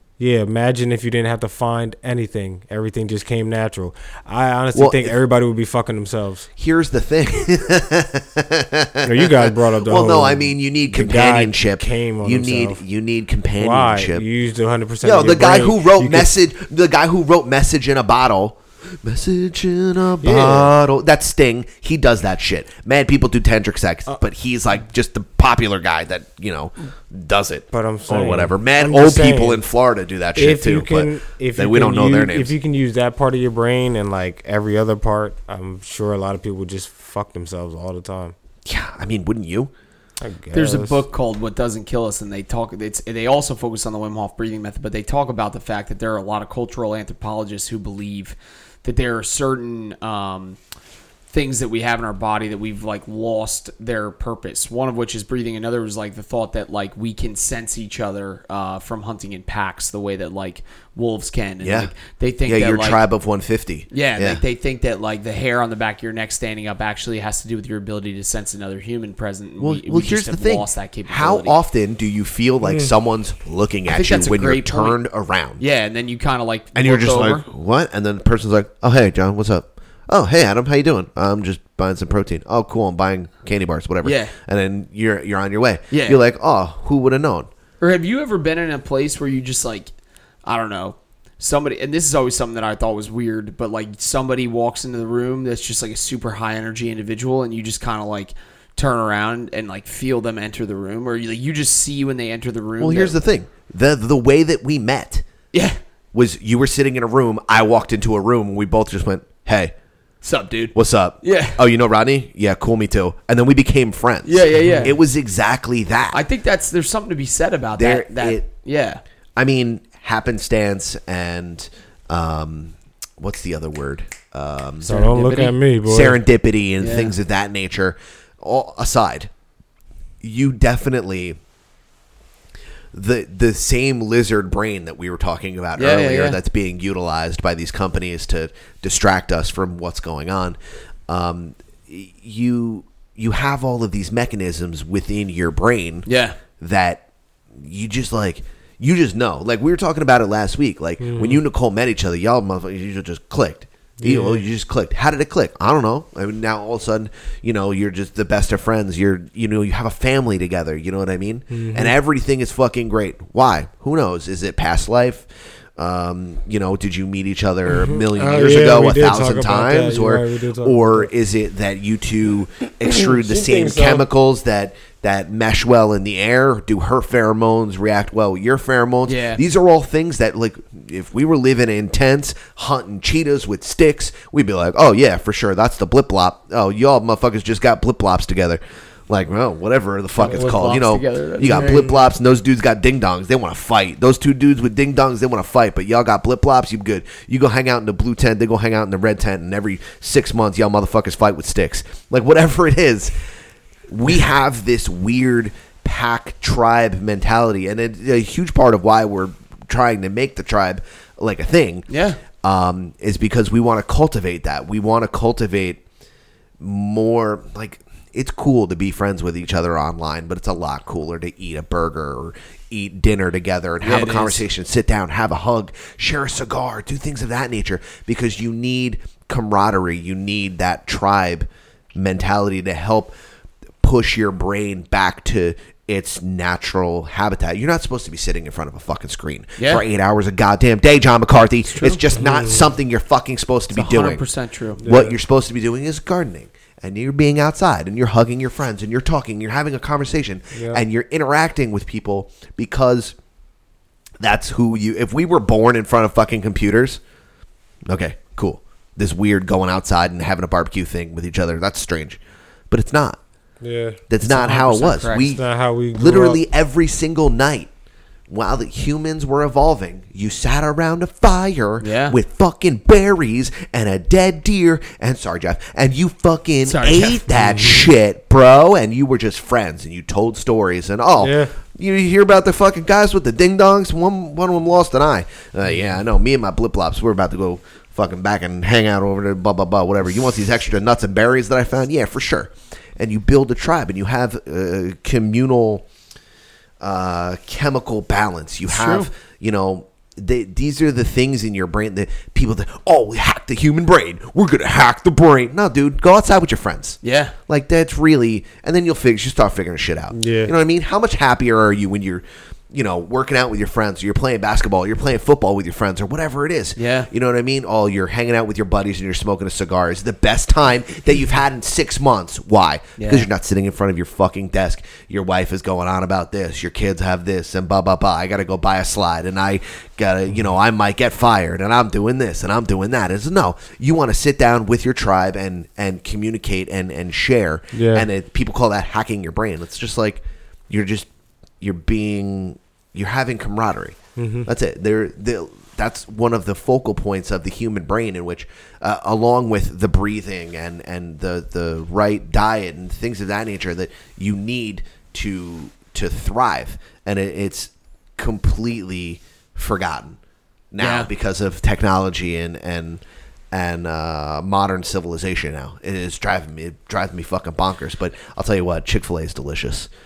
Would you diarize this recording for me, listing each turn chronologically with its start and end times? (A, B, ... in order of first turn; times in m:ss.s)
0:00.2-0:06.5 A
0:04.7-0:05.1 B
0:06.6-0:14.2 B
0:09.0-0:12.8 A
0:13.6-0:16.3 A
0:15.0-0:32.5 B
0:20.2-0:20.8 A
0:27.7-0:29.6 A
0:30.4-0:38.4 A
0:38.6-0:39.7 B
0:40.2-0:41.0 A
0:40.5-0:50.6 C
0:51.3-1:03.0 C
1:01.6-1:01.9 B
1:02.4-1:04.4 B
1:03.9-1:11.6 C
1:09.6-1:15.6 B
1:12.6-1:12.9 A
1:13.9-1:15.0 C
1:15.6-1:17.4 C
1:16.7-1:27.5 B
1:24.0-1:24.3 C
1:25.9-1:26.2 C
1:27.8-1:29.9 C
1:30.4-1:43.1 C
1:42.8-1:45.2 B
1:45.5-1:45.8 C
1:46.1-1:49.7 B
1:50.2-1:51.6 C
1:50.7-1:56.2 B
1:54.2-1:54.9 C
1:54.6-1:54.9 A
1:56.1-1:59.0 C
1:57.8-1:58.4 B
1:59.4-2:04.9 B
2:04.8-2:06.2 A
2:04.8-2:05.6 C
2:05.8-2:09.3 B
2:06.8-2:07.1 C
2:10.2-2:11.4 B
2:12.9-2:26.1 B
2:15.8-2:16.4 C
2:26.0-2:26.4 C
2:26.6-3:23.1 B
2:31.0-2:31.4 A
2:34.0-2:34.4 A
2:41.5-2:42.0 A
2:47.7-2:51.1 A
2:52.8-2:54.0 A
2:59.1-2:59.4 C
3:10.2-3:11.9 C
3:23.9-3:35.8 B
3:31.9-3:32.2 C
3:36.6-3:53.1 B
3:43.8-3:44.4 C
3:53.8-4:04.2 B
3:59.6-3:59.8 C
4:01.7-4:02.0 C
4:02.2-4:02.7 A
4:03.7-4:04.8 C
4:04.8-4:05.2 A
4:04.8-4:13.1 B
4:10.5-4:10.8 A
4:14.2-4:17.0 B
4:17.9-4:23.2 B
4:23.6-4:24.0 A
4:24.1-4:27.7 B
4:24.2-4:25.2 C
4:25.2-4:26.4 A
4:28.3-4:55.9 B
4:31.8-4:32.2 C
4:36.6-4:37.2 C
4:37.3-4:37.8 A
4:41.2-4:41.5 A
4:56.8-5:41.1 B
4:58.7-4:59.1 C
5:07.0-5:07.3 C
5:10.1-5:10.5 A
5:16.8-5:17.1 C
5:23.0-5:23.3 C
5:37.7-5:38.1 A
5:41.6-6:00.2 B
5:44.2-5:44.5 A
6:00.7-6:09.9 B
6:00.8-6:01.1 C